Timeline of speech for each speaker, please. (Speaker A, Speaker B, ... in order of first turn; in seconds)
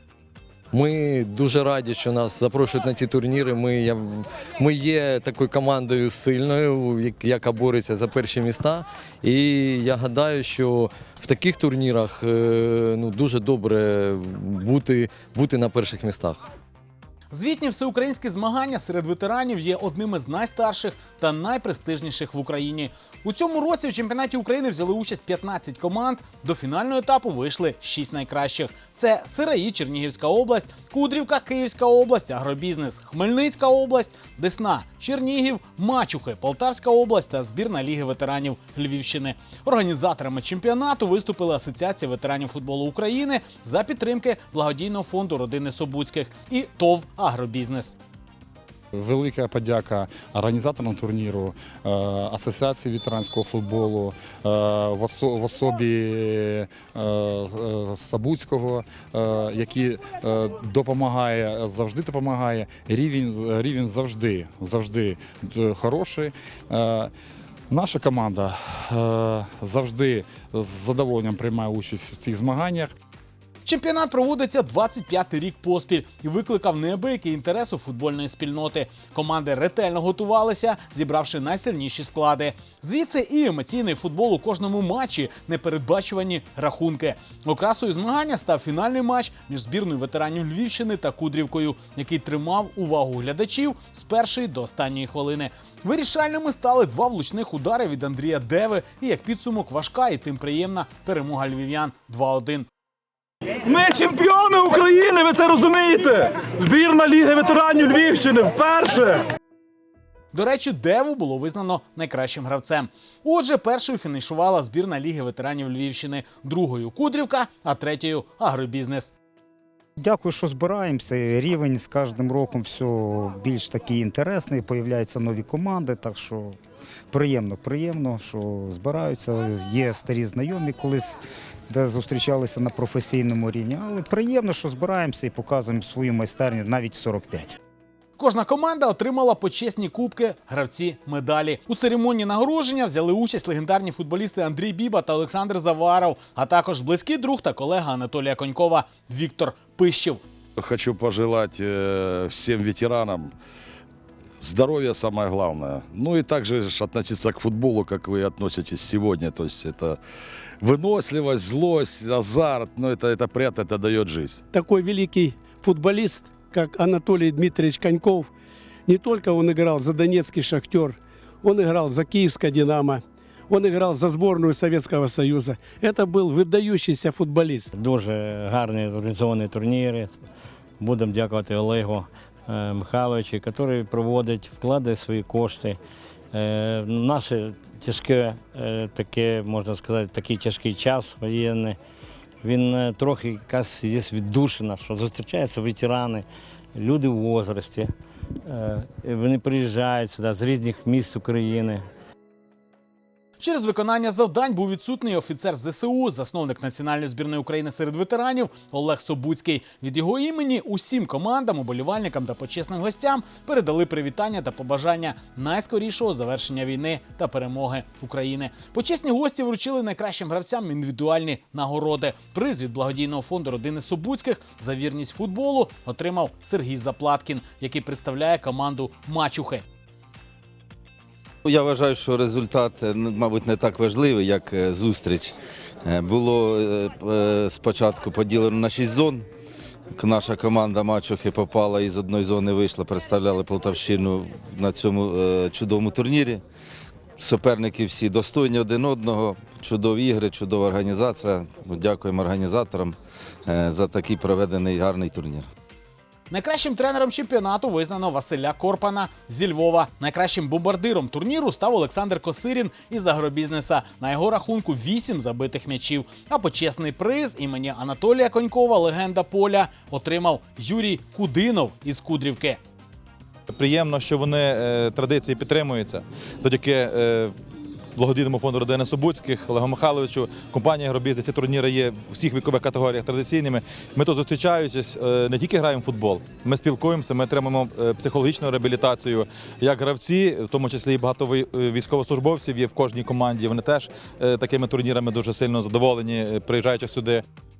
Speaker A: 0.7-16.4
Speaker B: 17.3-48.0, 73.6-102.7, 110.3-119.1, 138.2-150.2, 203.4-229.6, 256.3-272.6
Speaker C: 49.0-67.1, 67.7-72.9
Speaker D: 103.7-104.7, 105.2-107.0, 108.0-108.6
Speaker E: 120.0-126.5, 127.1-131.2, 131.7-137.6
Speaker F: 150.6-153.3, 154.4-160.0, 160.6-164.4
Speaker G: 164.5-168.3, 168.9-177.7
Speaker H: 177.7-180.2, 180.8-185.8, 186.3-191.8, 192.4-197.9, 198.5-201.8
Speaker I: 231.4-239.2, 239.9-246.4, 247.2-252.9, 253.5-255.5
Speaker J: 273.5-277.3, 277.9-297.2